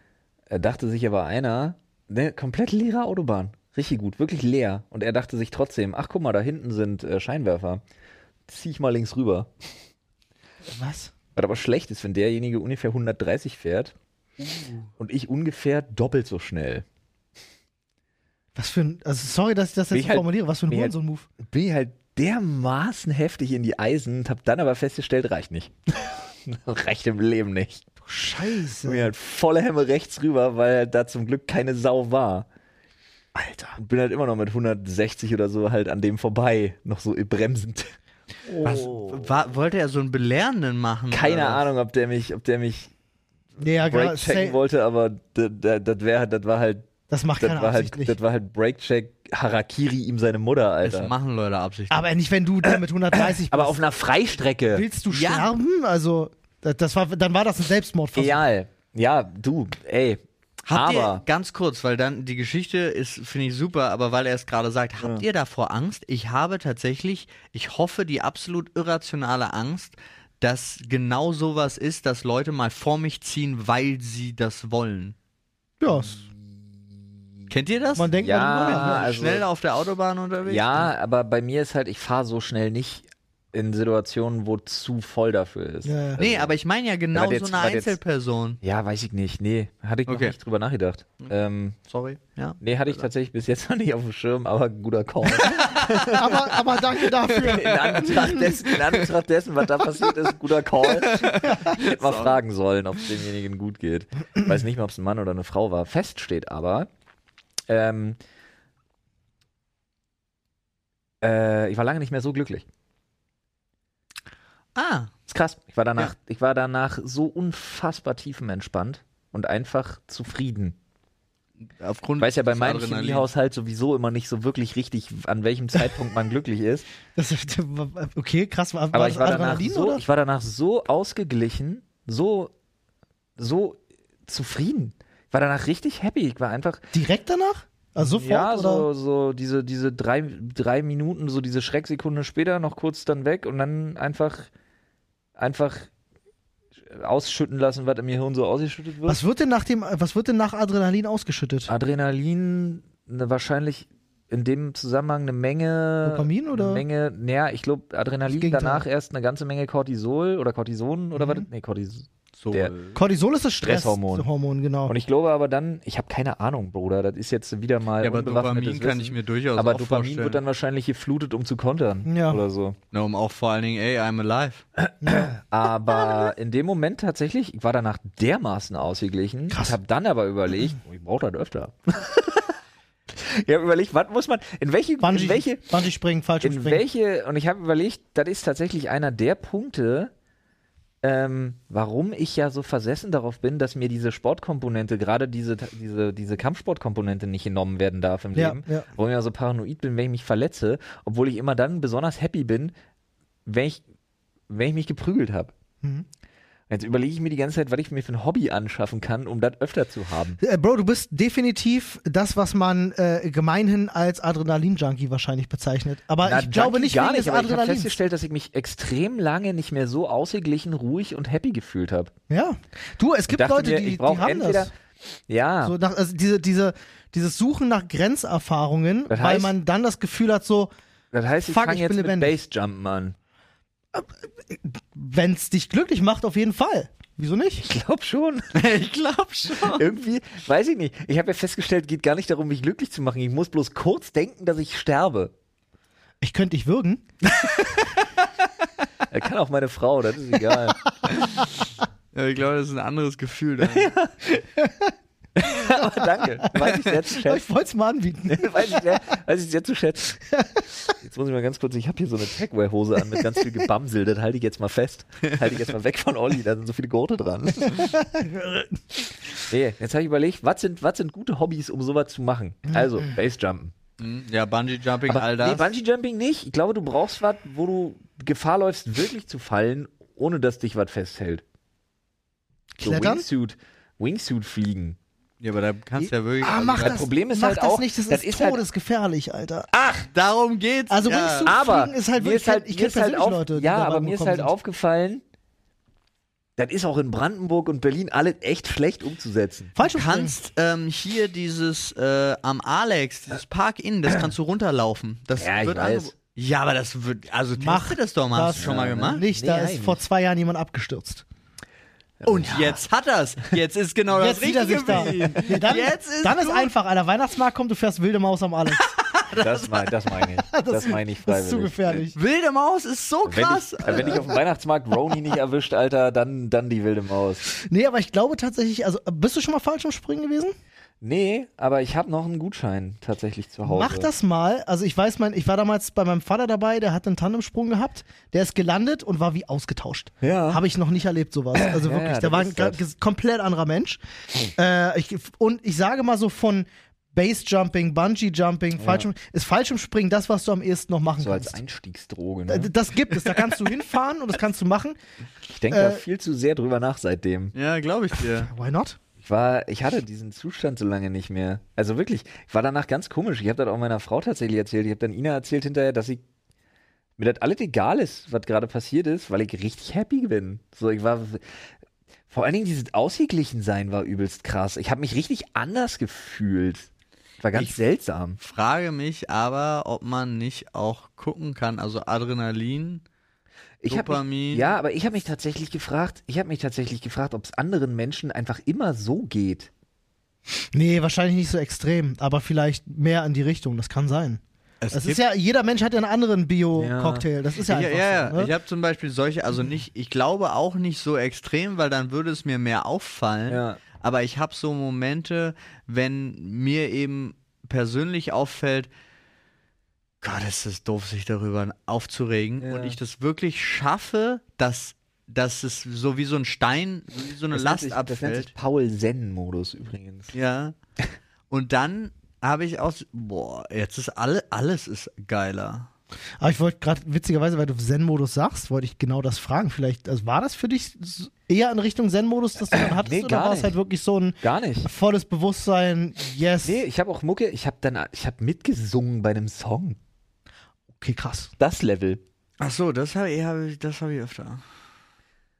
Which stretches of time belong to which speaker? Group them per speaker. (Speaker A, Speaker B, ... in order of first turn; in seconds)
Speaker A: 0.5-7.8, 8.5-9.5, 11.3-13.9, 15.0-16.9, 19.9-27.8, 28.8-32.5, 33.8-37.9, 38.6-39.3, 41.1-42.9, 43.6-46.9, 47.4-51.1, 53.1-54.9, 58.1-61.2, 65.0-65.2, 75.9-77.0, 78.0-79.5, 80.5-86.5, 87.1-88.0, 88.6-91.8, 92.6-106.9, 107.7-108.2, 111.2-112.7, 115.3-120.8, 122.2-126.9, 128.9-132.5, 133.4-136.8, 138.0-144.5, 145.4-145.9, 146.8-149.2, 151.7-162.7, 163.6-164.3, 164.9-172.8, 174.8-182.6, 183.1-185.7, 186.4-190.1, 191.0-202.7, 203.5-203.8, 204.5-205.5, 206.7-210.4, 216.2-222.1, 223.3-224.7, 225.3-225.8, 229.1-229.5, 231.1-233.2, 237.6-238.5, 239.6-245.3, 249.1-250.9, 253.6-254.3, 255.4-257.5, 258.3-260.3, 260.9-268.0, 269.5-273.8, 275.1-281.4, 282.8-285.0, 286.5-288.6, 289.7-290.1, 291.4-295.2, 296.6-299.7, 305.4-306.1, 308.6-310.0, 312.2-312.8, 319.4-322.1, 323.3-327.4, 331.0-334.1, 340.2-340.6, 341.5-342.8, 348.8-349.1, 351.2-352.7, 355.5-357.5, 359.2-366.2, 367.2-371.4, 372.3-376.9, 377.4-378.4, 383.8-389.7, 396.8-397.3, 403.5-403.8, 412.6-413.0, 417.5-420.3, 432.7-433.8, 434.4-434.9, 436.6-440.0, 441.6-442.2
Speaker B: 10.7-11.1, 18.6-21.3, 28.0-29.1, 33.4-33.8, 38.5-38.9, 43.6-44.6, 47.1-48.2, 51.9-53.8, 54.7-58.4, 75.8-76.2, 78.0-79.1, 85.8-86.2, 96.0-98.5, 127.2-130.0, 136.9-138.9, 149.1-151.7, 156.0-156.8, 158.3-158.8, 161.2-161.5, 162.9-164.9, 172.1-172.4, 175.0-175.3, 179.5-179.8, 185.0-186.8, 198.3-198.9, 210.4-217.9, 222.3-224.7, 225.6-230.7, 231.5-232.3, 233.9-237.7, 246.2-247.1, 254.6-254.9, 257.2-259.0, 267.7-268.7, 282.8-283.3, 286.0-289.7, 290.9-294.5, 299.8-300.4, 307.6-311.2, 314.1-318.9, 320.5-322.2, 323.9-324.4, 327.6-330.5, 333.6-344.0, 344.6-351.6, 352.5-355.0, 355.7-356.0, 358.3-359.0, 390.7-394.4, 394.9-398.5, 426.4-436.8, 440.9-441.5
Speaker C: 14.4-14.9, 38.6-41.6, 50.8-52.0, 55.1-55.5, 60.7-75.2, 77.5-80.9, 86.2-88.6, 90.1-90.3, 91.9-93.0, 95.4-95.8, 97.3-97.6, 100.9-102.4, 114.8-115.1, 121.8-123.3, 162.4-163.0, 168.0-170.4, 172.9-174.6, 238.5-239.8, 252.1-253.9, 274.0-275.7, 285.4-287.0, 290.1-291.5, 299.8-309.2, 312.2-316.7, 318.8-319.9, 322.2-324.3, 357.5-358.5, 378.4-383.0, 383.9-384.7, 394.8-395.2, 397.7-408.9, 410.2-418.5, 420.3-420.8, 421.5-425.9, 442.6-444.6